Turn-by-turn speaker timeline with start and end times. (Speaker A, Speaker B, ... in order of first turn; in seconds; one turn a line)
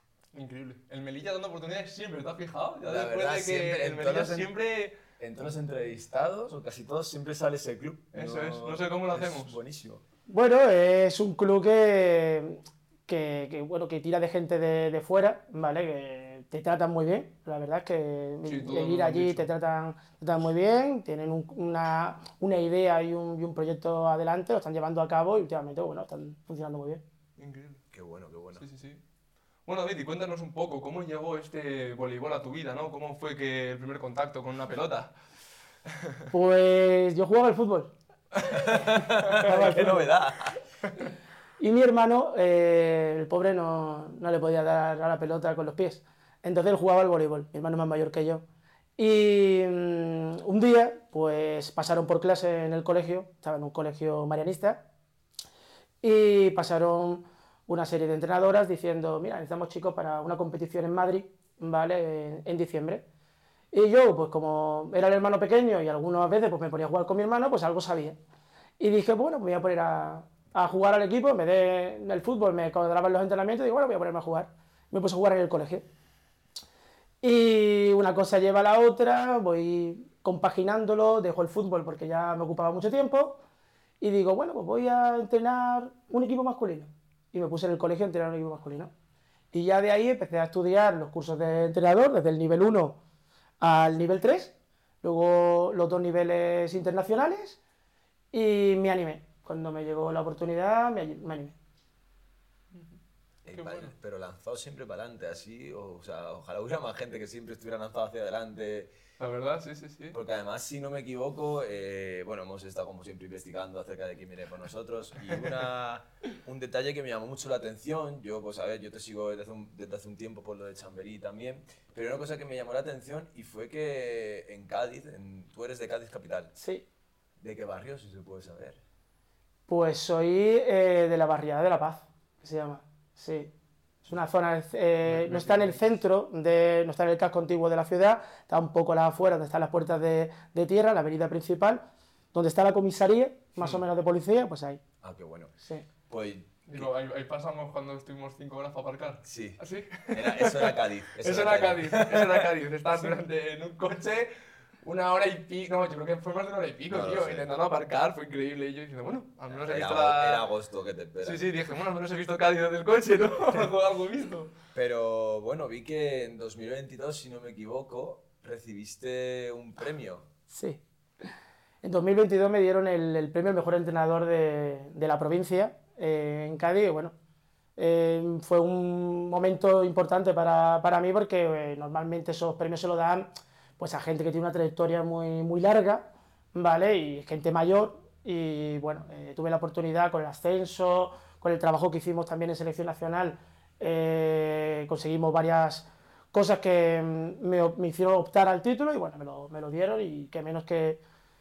Speaker A: 0.3-5.0
Speaker B: 2.8-4.5
Speaker B: 5.2-10.0
Speaker A: 8.1-9.6
Speaker C: 10.3-27.0
Speaker A: 18.4-19.5
Speaker A: 27.4-27.8
Speaker B: 27.9-28.6
Speaker A: 28.6-29.0
Speaker A: 29.6-35.1
Speaker A: 35.9-36.3
Speaker C: 36.3-37.9
Speaker B: 38.4-40.5
Speaker C: 39.4-40.1
Speaker C: 41.6-48.4
Speaker C: 49.0-54.9
Speaker C: 56.0-63.0
Speaker C: 63.7-68.2
Speaker C: 68.8-75.8
Speaker C: 77.2-83.4
Speaker C: 84.0-88.9
Speaker C: 89.5-93.0
Speaker C: 93.6-97.6
Speaker C: 98.3-101.5
Speaker B: 103.4-108.9
Speaker A: 103.5-103.9
Speaker A: 109.2-110.2
Speaker B: 110.1-126.5
Speaker C: 126.6-126.8
Speaker B: 127.4-128.8
Speaker C: 129.7-133.5
Speaker C: 134.0-141.8
Speaker A: 135.1-135.8
Speaker C: 142.3-144.8
Speaker B: 145.0-145.5
Speaker B: 146.1-146.9
Speaker A: 146.7-160.5
Speaker B: 149.2-152.5
Speaker B: 156.9-157.5
Speaker B: 159.5-161.4
Speaker A: 161.2-164.5
Speaker B: 164.7-170.2
Speaker C: 170.5-170.8
Speaker C: 171.8-177.1
Speaker C: 177.8-201.0